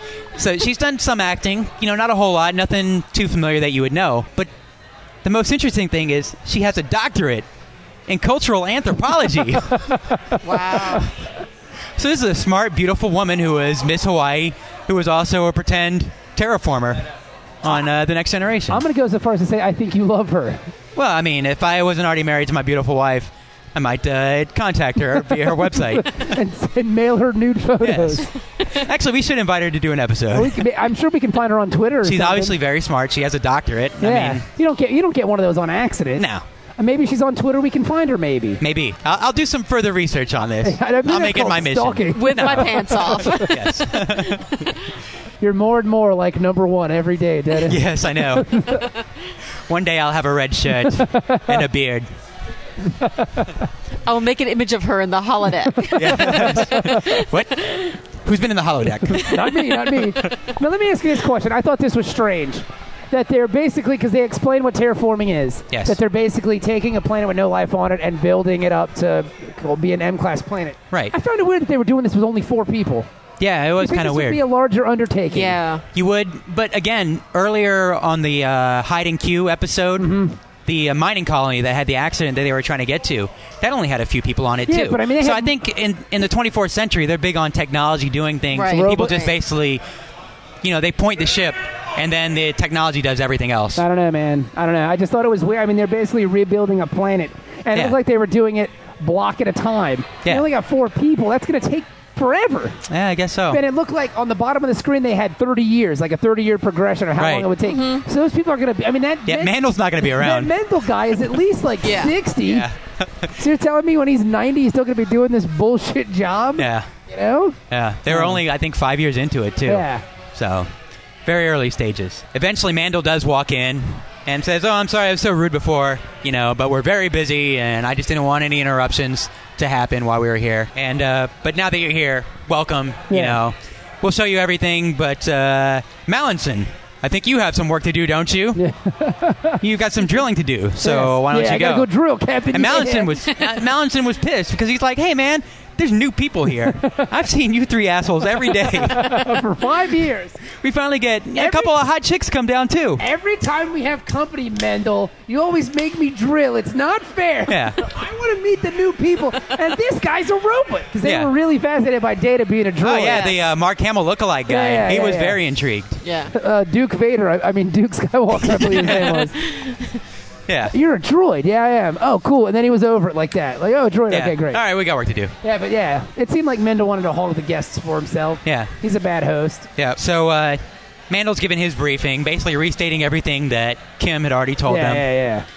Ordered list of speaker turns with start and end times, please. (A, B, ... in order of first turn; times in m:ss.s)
0:00.4-0:04.5 A
0:05.2-0:07.5 A
0:08.1-0:10.0 A
0:09.9-0:10.4 B
0:10.4-0:11.1 C
0:12.0-0:17.1 A
0:17.6-0:18.8 A
0:18.7-0:20.6 B
0:21.0-0:26.4 A
0:25.7-0:28.3 B
0:27.8-0:30.6 A
0:30.3-0:32.6 B
0:32.0-0:34.4 A
0:34.0-0:36.3 B
0:36.2-0:36.4 A
0:36.8-0:38.6 B
0:38.6-0:44.7 A
0:40.6-0:43.5 B
0:42.1-0:43.6 C
0:44.3-0:44.5 C
0:45.4-0:48.9 B
0:47.6-0:48.8 A
0:49.7-0:52.1 A
0:50.8-0:51.6 B
0:52.9-0:53.6 B
0:54.1-0:57.2 C
0:55.7-0:57.2 B
0:56.0-1:00.3 A
0:59.1-1:13.1 B
1:05.7-1:06.0 A
1:13.4-1:14.4 A
1:13.8-1:15.6 B
1:15.3-1:15.8 C
1:15.9-1:29.8 A
1:20.0-1:20.4 B
1:24.7-1:25.6 B
1:28.5-1:29.3 C
1:28.7-1:29.2 B
1:30.6-1:33.8 A
1:33.8-1:42.8 B
1:42.9-1:43.6 A
1:43.5-1:52.7 B
1:47.2-1:47.5 A
1:47.6-1:48.0 C
1:49.3-1:50.6 A
1:51.8-1:52.2 C
1:52.4-1:53.4 A
1:53.4-1:58.4 B
1:56.6-1:56.9 A
1:57.7-2:00.7 A
1:59.7-2:00.0 B
2:01.2-2:18.6 A
2:13.1-2:13.4 B
2:18.6-2:19.6 B
2:19.6-2:21.9 A
2:20.8-2:23.3 B
2:22.5-2:29.3 A
2:26.6-2:27.1 B
2:28.5-2:30.4 B
2:30.5-2:33.0 A
2:31.4-2:31.7 B
2:33.0-2:43.3 B
2:37.5-2:37.8 A
2:41.0-2:41.3 A
2:42.8-2:46.0 A
2:43.0-2:43.4 C
2:44.5-2:45.4 B
2:46.0-2:46.3 C
2:46.3-2:49.4 B
2:48.4-2:49.3 A
2:49.5-2:49.8 C
2:50.5-2:50.7 A
2:50.7-2:54.6 B
2:54.1-2:55.4 A
2:55.4-2:59.7 B
2:58.4-2:58.7 A
2:59.8-3:05.1 A
3:04.7-3:05.5 B